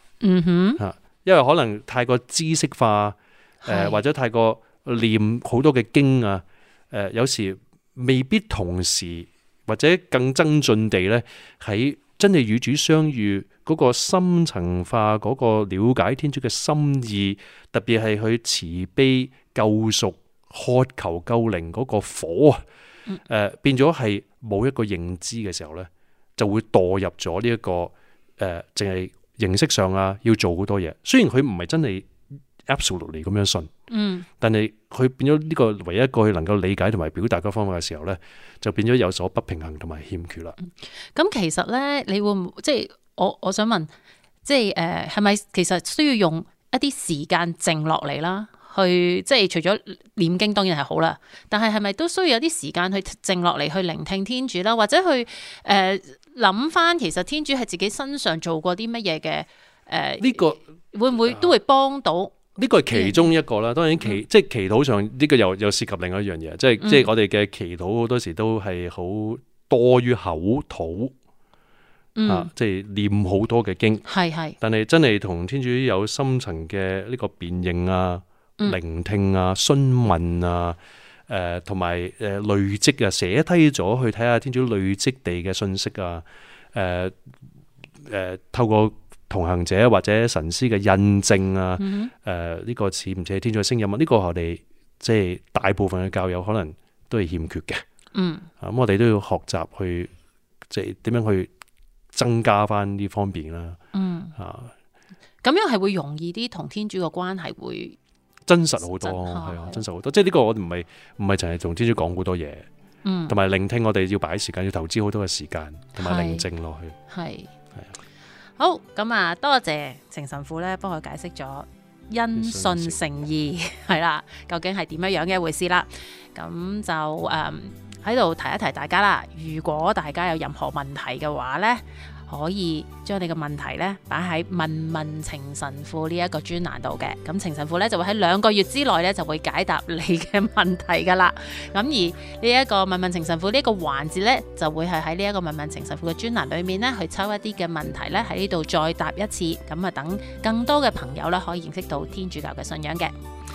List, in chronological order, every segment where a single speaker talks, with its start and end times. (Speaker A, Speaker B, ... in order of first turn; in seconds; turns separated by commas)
Speaker A: 0.2-0.8, Speaker B: 0.8-22.6, Speaker A: 3.6-4.0, Speaker B: 23.2-32.1, Speaker B: 32.7-33.7, Speaker A: 33.9-34.3, Speaker B: 34.4-40.6, Speaker A: 41.1-43.9, Speaker A: 44.5-63.3, Speaker B: 60.2-60.6, Speaker B: 62.6-71.1, Speaker A: 66.8-67.1, Speaker A: 72.2-72.5, Speaker B: 72.3-74.0, Speaker A: 74.1-74.6, Speaker B: 74.6-80.8, Speaker B: 81.3-87.2, Speaker B: 88.0-97.8, Speaker A: 91.8-92.1, Speaker A: 98.1-98.5, Speaker B: 98.6-100.1, Speaker B: 100.7-101.5, Speaker B: 102.1-103.8, Speaker A: 103.9-104.3, Speaker B: 104.4-104.7, Speaker A: 105.4-108.0, Speaker B: 108.5-112.7, Speaker A: 108.8-109.8, Speaker A: 113.0-113.3, Speaker B: 113.3-117.0, Speaker A: 116.0-116.5, Speaker A: 117.1-117.5, Speaker A: 118.6-153.1, Speaker B: 122.3-123.0